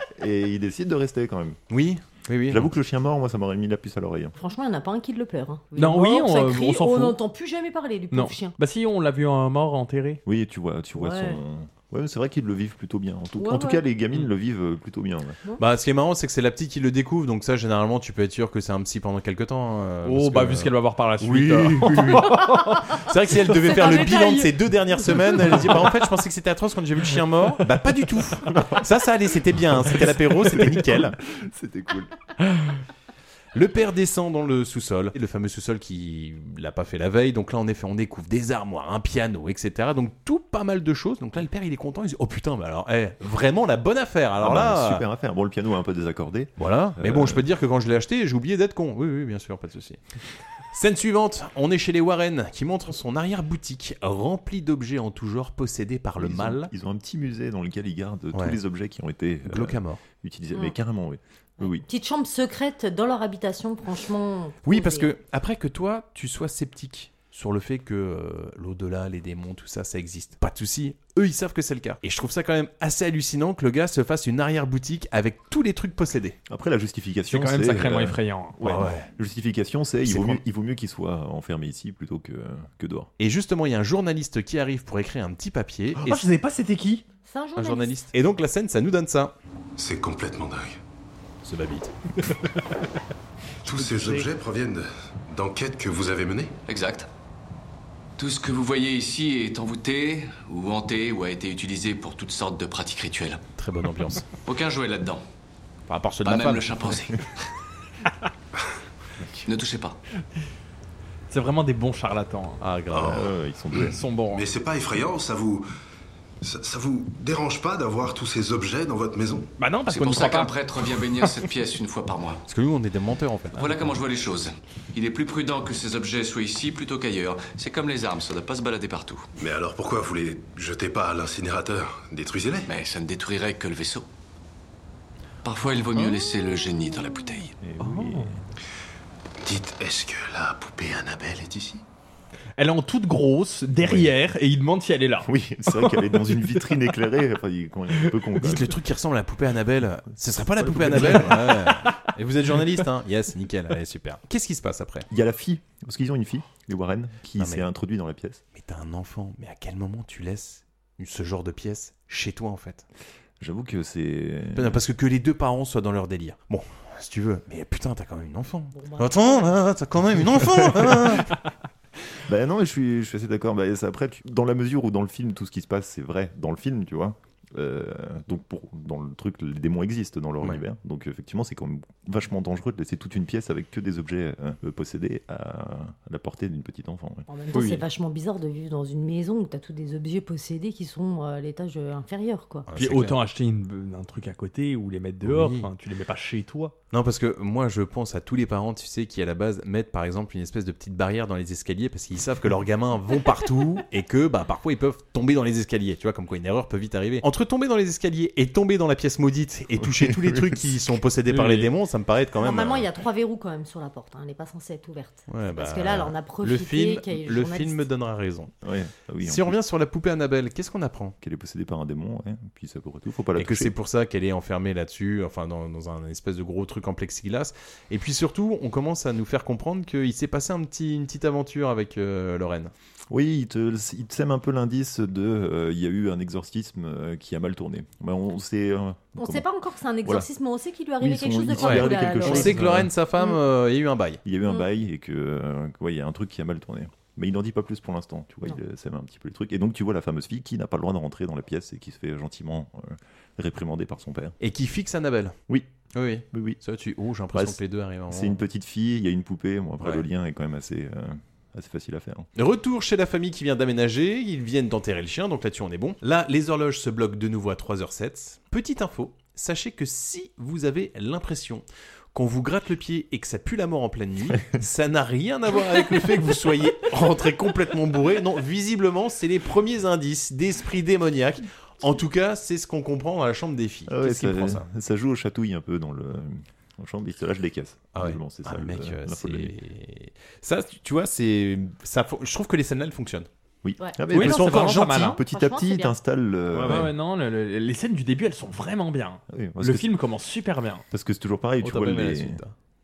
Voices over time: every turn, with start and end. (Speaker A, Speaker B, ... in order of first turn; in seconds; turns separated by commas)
Speaker A: 0.2-1.6, Speaker B: 1.7-2.7, Speaker A: 2.5-4.3, Speaker C: 4.4-8.5, Speaker D: 5.8-7.2, Speaker D: 8.1-10.2, Speaker A: 10.2-15.4, Speaker C: 11.0-11.4, Speaker C: 13.4-13.8, Speaker B: 15.6-31.1, Speaker D: 20.0-24.2, Speaker C: 23.7-24.5, Speaker D: 25.4-25.8, Speaker A: 28.5-28.9, Speaker A: 30.7-32.1, Speaker B: 33.5-45.0, Speaker A: 44.4-47.4, Speaker B: 46.6-50.0, Speaker B: 50.7-56.7, Speaker A: 56.2-61.8, Speaker B: 59.5-60.0, Speaker C: 61.6-65.1, Speaker B: 64.6-76.4, Speaker A: 76.5-83.1, Speaker D: 77.3-78.6, Speaker B: 78.6-79.1, Speaker B: 80.0-80.4, Speaker B: 83.2-86.2, Speaker D: 86.0-87.0, Speaker C: 87.2-88.0, Speaker B: 87.5-89.3, Speaker E: 89.8-90.8, Speaker B: 91.4-91.9, Speaker E: 93.6-96.6, Speaker D: 93.7-94.3, Speaker F: 96.7-97.1, Speaker F: 98.2-103.4, Speaker B: 103.6-104.3, Speaker F: 104.4-105.2, Speaker B: 105.9-106.6, Speaker F: 106.2-107.2, Speaker F: 109.5-110.0, Speaker D: 111.3-112.6, Speaker B: 112.6-113.3, Speaker E: 112.9-113.2, Speaker A: 113.0-114.0, Speaker D: 113.8-114.4, Speaker E: 113.8-115.7, Speaker E: 116.4-119.5, Speaker D: 119.6-120.5, Speaker F: 119.9-122.4, Speaker B: 122.5-123.6, Speaker F: 123.5-129.3, Speaker E: 129.4-132.7, Speaker F: 132.7-134.1, Speaker F: 135.4-137.5, Speaker A: 137.6-138.4, Speaker D: 137.8-138.3, Speaker E: 139.4-141.8, Speaker D: 142.6-145.3, Speaker B: 143.8-144.1, Speaker A: 145.2-148.8, Speaker B: 148.4-155.1, Speaker A: 150.6-151.8, Speaker D: 151.0-152.0, Speaker A: 155.1-158.4, Speaker B: 157.4-157.6, Speaker B: 158.6-162.8, Speaker A: 163.4-164.8, Speaker B: 164.5-171.3, Speaker C: 168.7-169.6, Speaker A: 170.7-171.1, Speaker A: 172.2-187.3, Speaker C: 187.3-192.7, Speaker B: 192.7-193.2, Speaker D: 192.7-196.7, Speaker B: 195.2-195.7, Speaker B: 196.9-212.9, Speaker A: 209.8-210.7, Speaker D: 211.3-211.7, Speaker C: 212.3-217.8, Speaker B: 215.3-218.5, Speaker A: 218.6-219.6, Speaker B: 219.2-221.1, Speaker A: 221.2-223.7, Speaker B: 223.3-232.7, Speaker A: 233.1-239.4, Speaker C: 239.2-242.7, Speaker A: 241.0-242.9, Speaker B: 241.6-244.2, Speaker A: 244.2-254.3, Speaker B: 254.4-255.3, Speaker B: 255.9-258.4, Speaker A: 256.3-256.6, Speaker A: 257.3-262.3, Speaker B: 262.4-284.6, Speaker A: 283.9-289.5, Speaker B: 287.9-293.3, Speaker A: 293.6-296.9, Speaker D: 294.1-295.2, Speaker B: 294.2-294.7, Speaker C: 294.6-295.9, Speaker D: 296.5-300.8, Speaker B: 296.5-296.9, Speaker A: 299.3-299.9, Speaker A: 300.9-302.4, Speaker D: 301.6-302.0, Speaker B: 301.6-302.5